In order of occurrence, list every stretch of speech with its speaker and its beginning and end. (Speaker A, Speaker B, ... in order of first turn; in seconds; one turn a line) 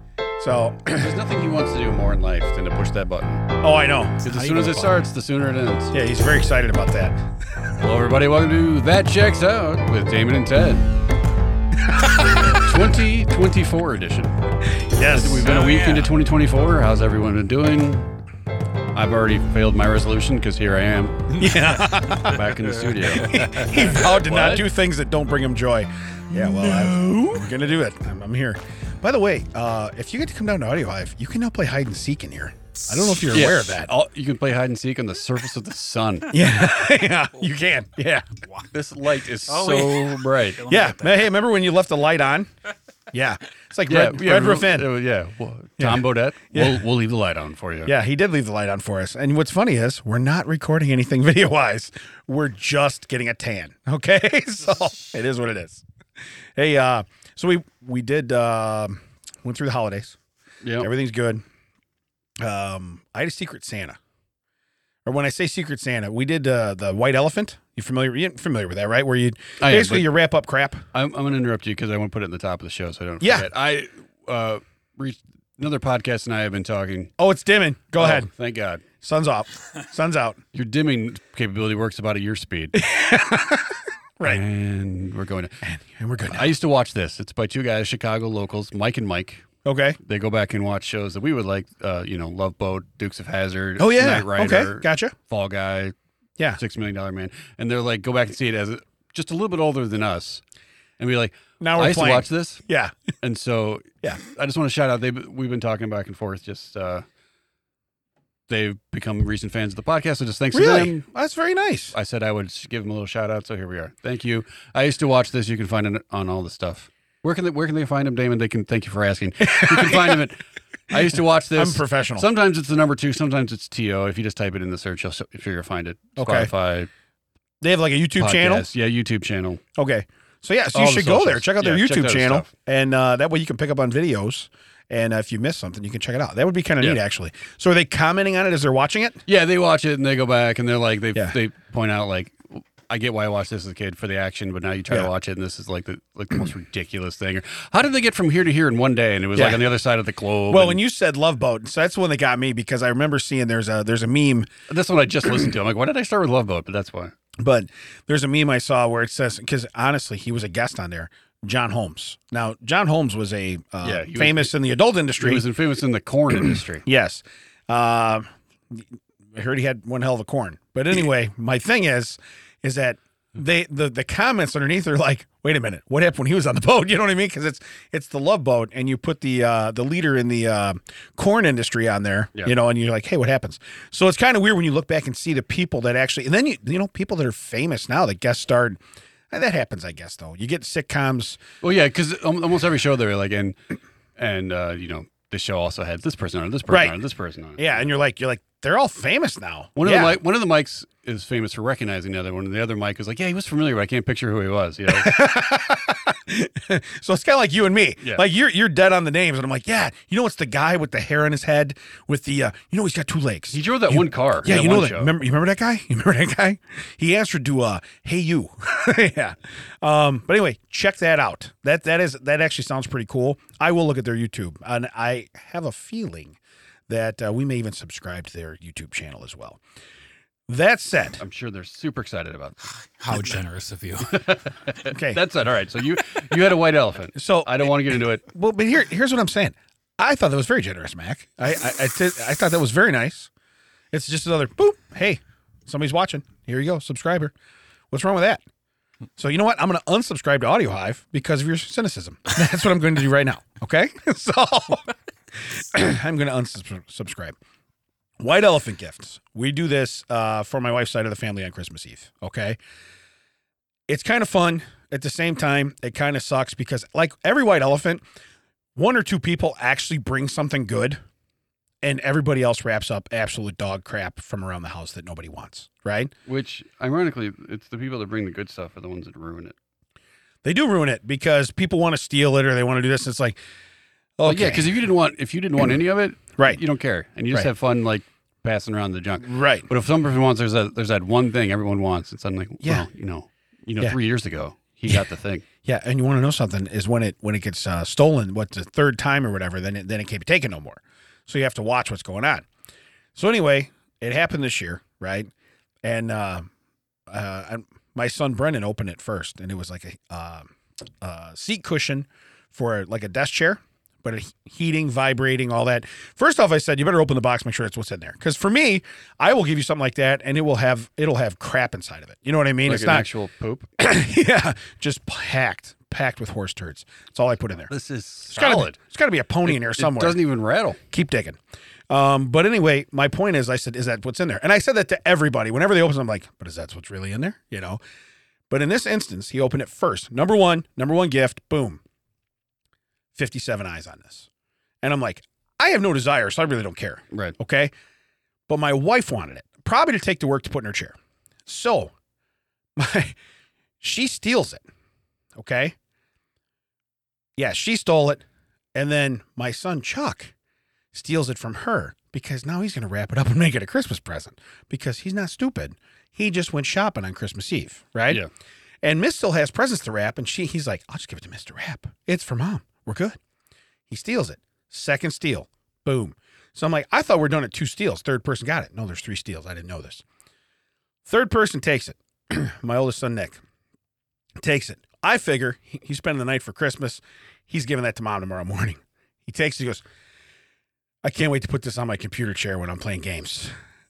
Speaker A: 0.4-1.1
Speaker B: 0.9-3.5
Speaker A: 3.6-4.3
Speaker B: 4.2-6.0
Speaker C: 4.3-5.0
Speaker A: 5.9-7.2
Speaker B: 7.8-10.9
Speaker A: 11.9-12.7
Speaker B: 12.5-14.4
Speaker A: 14.8-15.6
Speaker B: 15.1-18.1
Speaker C: 15.6-16.0
Speaker B: 18.9-21.3
Speaker A: 21.3-22.4
Speaker B: 22.2-24.6
Speaker A: 23.2-33.9
Speaker B: 33.3-36.4
Speaker A: 36.3-38.3
Speaker B: 38.7-40.6
Speaker C: 39.5-41.3
Speaker A: 40.7-42.5
Speaker A: 43.1-44.9
Speaker B: 43.9-47.9
Speaker A: 45.8-46.9
Speaker A: 47.9-55.8
Speaker A: 56.6-60.2
Speaker B: 60.6-60.9
Speaker A: 60.8-61.4
Speaker A: 62.4-64.0
Speaker A: 65.1-70.9
Speaker B: 69.6-70.1
Speaker B: 70.9-77.1
Speaker A: 73.2-73.5
Speaker A: 77.2-78.3
Speaker B: 78.0-78.8
Speaker A: 79.0-80.4
Speaker B: 80.5-82.8
Speaker A: 82.7-84.4
Speaker B: 84.2-85.6
Speaker A: 85.6-86.5
Speaker B: 86.3-89.5
Speaker A: 89.7-90.0
Speaker B: 90.0-95.9
Speaker A: 93.8-95.1
Speaker B: 96.6-100.4
Speaker B: 101.0-102.6
Speaker A: 101.6-103.0
Speaker B: 103.2-107.0
Speaker B: 108.5-111.0
Speaker A: 110.5-112.0
Speaker B: 111.9-126.9
Speaker A: 119.4-120.2
Speaker A: 121.6-122.3
Speaker A: 126.2-126.5
Speaker A: 127.6-128.7
Speaker B: 128.2-129.6
Speaker A: 129.8-139.2
Speaker B: 130.7-132.5
Speaker B: 139.3-150.8
Speaker A: 149.4-149.6
Speaker A: 150.5-154.5
Speaker B: 154.7-157.2
Speaker A: 157.4-165.4
Speaker B: 163.8-164.5
Speaker B: 165.2-166.8
Speaker A: 166.8-188.8
Speaker A: 189.3-191.4
Speaker B: 191.6-193.6
Speaker B: 194.2-197.7
Speaker A: 196.7-197.0
Speaker A: 197.6-200.2
Speaker B: 199.8-205.1
Speaker A: 204.9-226.4
Speaker B: 213.5-215.1
Speaker A: 226.9-229.6
Speaker A: 230.5-231.2
Speaker B: 231.2-232.6
Speaker C: 233.0-234.3
Speaker B: 234.1-238.2
Speaker A: 234.9-235.2
Speaker A: 237.2-237.6
Speaker A: 238.2-243.3
Speaker A: 243.9-247.3
Speaker A: 247.9-248.4
Speaker A: 249.2-257.4
Speaker A: 258.2-262.6
Speaker A: 263.9-268.0
Speaker A: 268.8-271.0
Speaker A: 271.8-276.1
Speaker B: 276.3-279.5
Speaker A: 280.4-283.4
Speaker A: 284.2-284.8
Speaker B: 284.2-295.5
Speaker A: 289.2-289.7
Speaker A: 295.6-302.5
Speaker A: 303.1-305.3
Speaker A: 305.8-306.5
Speaker A: 307.1-323.1
Speaker B: 322.6-323.7
Speaker A: 323.8-327.7
Speaker B: 327.7-328.8
Speaker A: 328.3-330.2
Speaker B: 329.5-330.8
Speaker A: 330.9-331.4
Speaker A: 331.9-337.8
Speaker A: 338.5-341.8
Speaker A: 343.1-344.3
Speaker A: 344.8-347.7
Speaker A: 348.5-350.9
Speaker A: 351.5-351.9
Speaker A: 352.8-353.2
Speaker A: 353.8-354.6
Speaker A: 355.4-355.8
Speaker A: 357.4-358.2
Speaker A: 358.8-360.3
Speaker A: 360.9-368.2
Speaker A: 368.8-373.2
Speaker A: 373.9-380.0
Speaker A: 381.1-383.4
Speaker A: 384.4-389.8
Speaker A: 391.0-393.5